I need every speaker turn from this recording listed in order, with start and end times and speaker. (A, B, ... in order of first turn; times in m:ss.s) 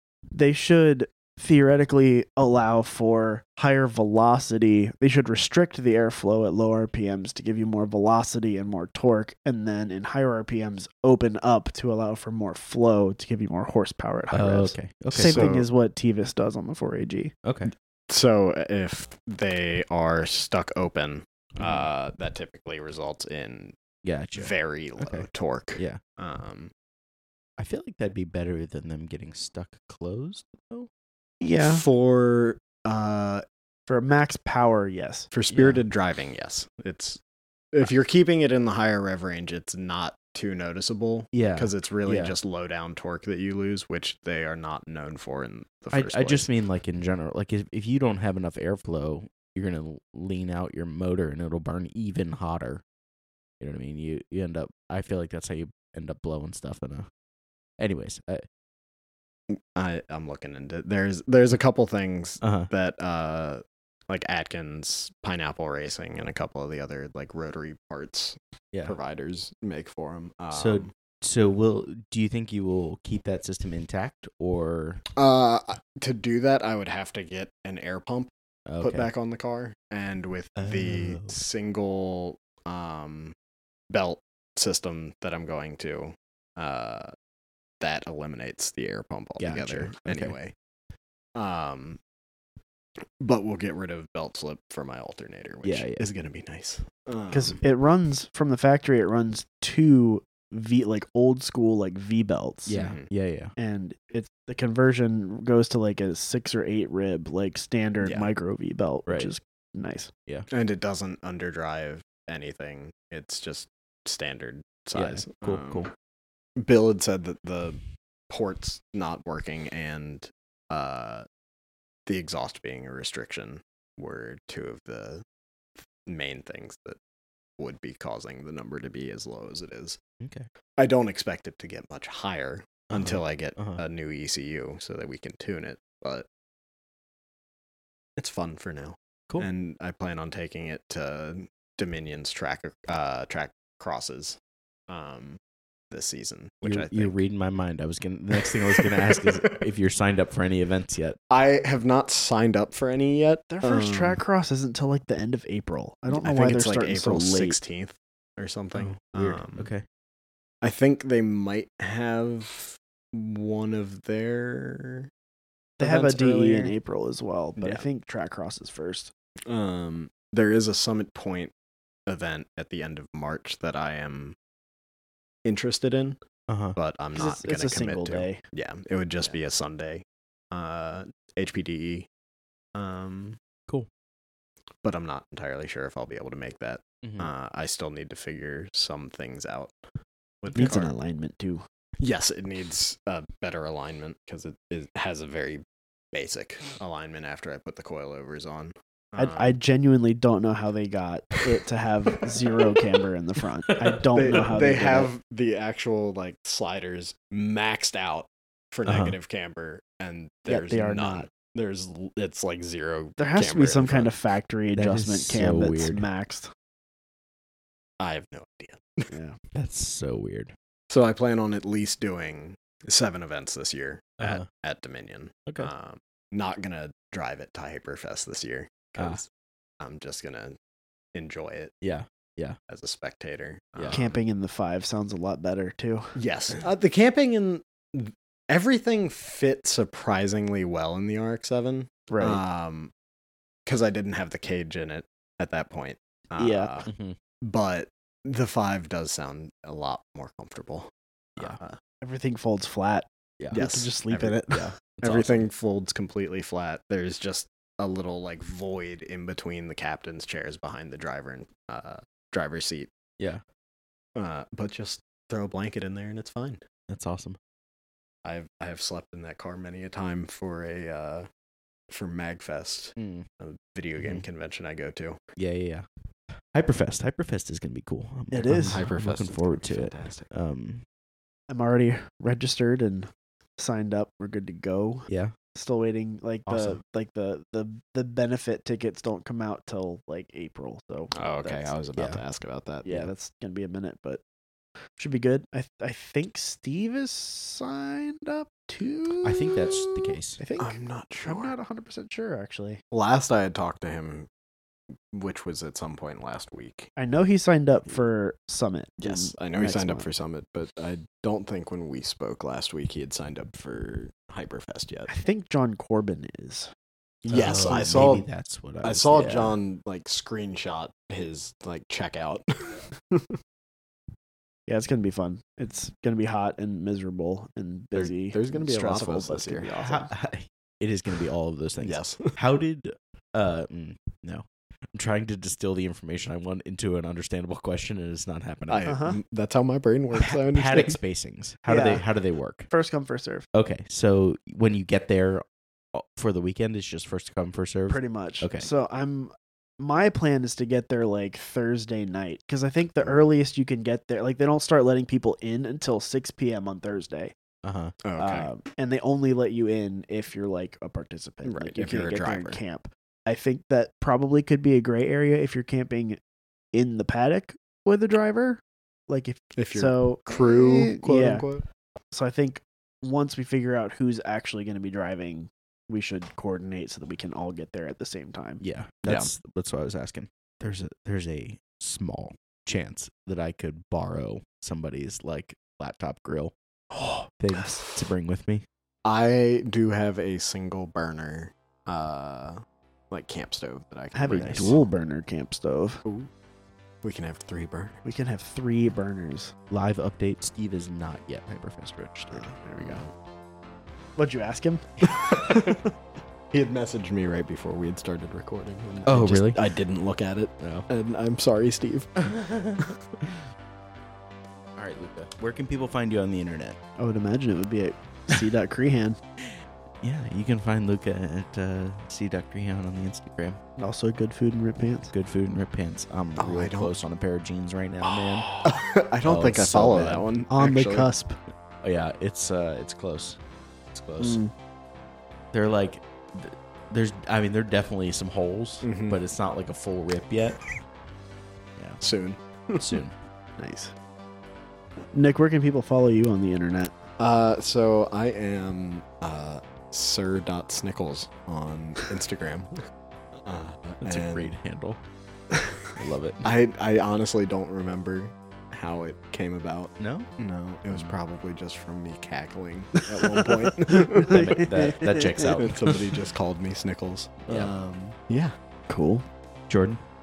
0:00.3-0:17.3 A
0:14.3-0:15.5 B
0:15.1-0:15.7 C
0:17.4-0:17.7 B
0:18.1-0:23.8 C
0:21.6-0:21.9 B
0:24.0-0:26.0 B
0:24.4-0:26.7 C
0:27.6-0:30.9 B
0:31.4-0:31.8 A
0:31.6-0:33.4 C
0:33.9-0:35.3 A
0:35.3-0:37.2 C
0:35.5-0:35.8 B
0:37.7-0:46.5 C
0:41.3-0:42.3 B
0:45.9-0:52.8 B
0:53.6-0:57.1 B
0:57.8-0:58.4 B
0:59.5-1:10.9 C
1:02.4-1:02.7 B
1:10.5-1:15.0 B
1:15.1-1:23.3 C
1:18.7-1:19.1 B
1:20.6-1:21.4 B
1:23.9-1:27.1 C
1:27.8-1:30.5 C
1:29.4-1:30.3 B
1:31.4-1:32.0 C
1:33.2-1:37.6 C
1:35.6-1:36.1 B
1:37.3-1:42.8 A
1:42.6-1:43.5 B
1:42.7-1:43.1 C
1:43.6-1:50.1 A
1:49.1-1:49.3 B
1:50.5-1:55.9 C
1:54.9-1:55.9 B
1:56.6-2:01.2 C
2:02.1-2:05.2 C
2:06.0-2:07.0 C
2:07.6-2:10.0 C
2:10.2-2:10.5 B
2:10.8-2:16.2 C
2:12.9-2:13.8 B
2:18.2-2:24.4 C
2:24.9-2:25.4 C
2:25.9-2:27.2 C
2:26.6-2:31.2 B
2:28.4-2:29.6 C
2:31.3-2:34.2 C
2:33.5-2:37.6 A
2:36.1-2:39.7 C
2:38.7-2:39.8 B
2:40.6-2:45.1 C
2:45.8-2:46.7 C
2:45.8-2:49.1 A
2:49.5-2:51.5 C
2:52.1-2:54.4 C
2:55.4-2:56.2 C
2:56.5-2:56.8 B
2:56.8-3:02.1 C
2:57.2-2:58.4 A
3:02.7-3:03.4 C
3:04.8-3:09.8 C
3:07.0-3:07.3 B
3:10.4-3:10.9 C
3:10.5-3:11.6 A
3:12.0-3:19.5 C
3:19.2-3:25.1 A
3:23.7-3:24.4 B
3:24.1-3:34.1 C
3:28.8-3:29.2 B
3:30.5-3:31.3 A
3:33.2-3:36.5 A
3:34.7-3:36.0 B
3:38.0-3:39.1 C
3:39.1-3:39.4 A
3:39.5-3:40.5 B
3:40.9-3:49.3 C
3:44.2-3:44.4 B
3:49.8-3:50.5 C
3:51.1-3:51.7 C
3:51.8-3:52.6 B
3:52.7-3:54.2 C
3:53.7-3:54.0 B
3:53.9-3:56.1 A
3:56.2-4:02.9 C
4:02.1-4:02.4 A
4:03.6-4:06.9 C
4:06.4-4:06.8 A
4:06.8-4:07.2 B
4:07.4-4:11.8 C
4:12.0-4:14.4 A
4:13.5-4:22.9 C
4:14.4-4:15.4 B
4:24.2-4:26.6 C
4:26.9-4:27.4 B
4:28.2-4:31.3 C
4:31.9-4:35.2 C
4:33.0-4:33.3 B
4:34.0-4:34.2 B
4:35.4-4:35.8 B
4:36.5-4:40.8 B
4:38.3-4:38.8 A
4:38.7-4:40.3 C
4:41.5-4:51.7 A
4:45.1-4:45.3 B
4:46.5-4:46.8 B
4:51.1-4:53.0 C
4:52.0-4:52.2 B
4:52.8-4:54.2 A
4:55.0-4:59.5 A
4:59.2-5:00.4 B
5:00.4-5:02.8 A
5:00.6-5:01.5 C
5:02.9-5:04.3 C
5:05.1-5:06.9 C
5:07.0-5:10.1 A
5:09.0-5:15.1 C
5:15.1-5:16.7 A
5:17.2-5:18.3 C
5:17.3-5:19.5 B
5:17.4-5:18.2 A
5:18.8-5:22.9 C
5:24.7-5:30.1 A
5:27.9-5:29.7 C
5:29.8-5:38.9 B
5:31.8-5:32.3 C
5:38.7-5:41.0 C
5:38.8-5:39.2 A
5:40.1-5:42.7 B
5:41.7-5:42.0 A
5:42.7-5:43.4 A
5:43.5-5:48.7 B
5:47.9-5:57.3 A
5:57.6-5:57.9 B
5:58.0-5:58.5 C
5:58.2-6:06.2 A
6:01.4-6:02.6 C
6:06.7-6:11.4 A
6:09.6-6:11.6 C
6:12.1-6:18.6 A
6:18.6-6:26.5 B
6:26.9-6:27.7 A
6:27.4-6:28.6 B
6:29.0-6:34.8 C
6:34.1-6:36.0 A
6:34.3-6:34.7 B
6:36.0-6:36.3 C
6:37.0-6:38.0 C
6:38.0-6:39.5 A
6:39.7-6:42.5 B
6:42.3-6:43.0 A
6:42.8-6:43.1 C
6:44.2-6:45.8 A
6:45.1-6:45.8 C
6:46.5-6:52.9 C
6:49.0-6:49.6 B
6:50.6-6:50.9 B
6:52.2-6:53.4 B
6:54.8-6:56.8 B
6:57.0-6:59.2 A
7:00.0-7:03.6 B
7:03.8-7:05.1 A
7:05.1-7:08.5 B
7:06.4-7:06.9 C
7:08.1-7:11.1 C
7:09.2-7:10.3 B
7:10.5-7:11.4 A
7:11.8-7:13.4 B
7:13.9-7:14.4 C
7:14.2-7:14.5 A
7:15.5-7:20.6 B
7:18.8-7:19.2 C
7:22.0-7:22.4 C
7:22.8-7:23.1 B
7:23.6-7:23.9 A
7:25.1-7:26.9 A
7:27.2-7:32.8 C
7:33.4-7:34.5 C
7:34.0-7:35.0 B
7:35.5-7:44.4 C
7:36.0-7:36.4 B
7:40.0-7:40.3 B
7:40.9-7:41.2 B
7:43.0-7:45.6 A
7:44.3-7:46.1 B
7:45.5-7:48.5 C
7:47.5-7:47.7 B
7:48.9-7:49.2 A
7:49.7-7:50.0 B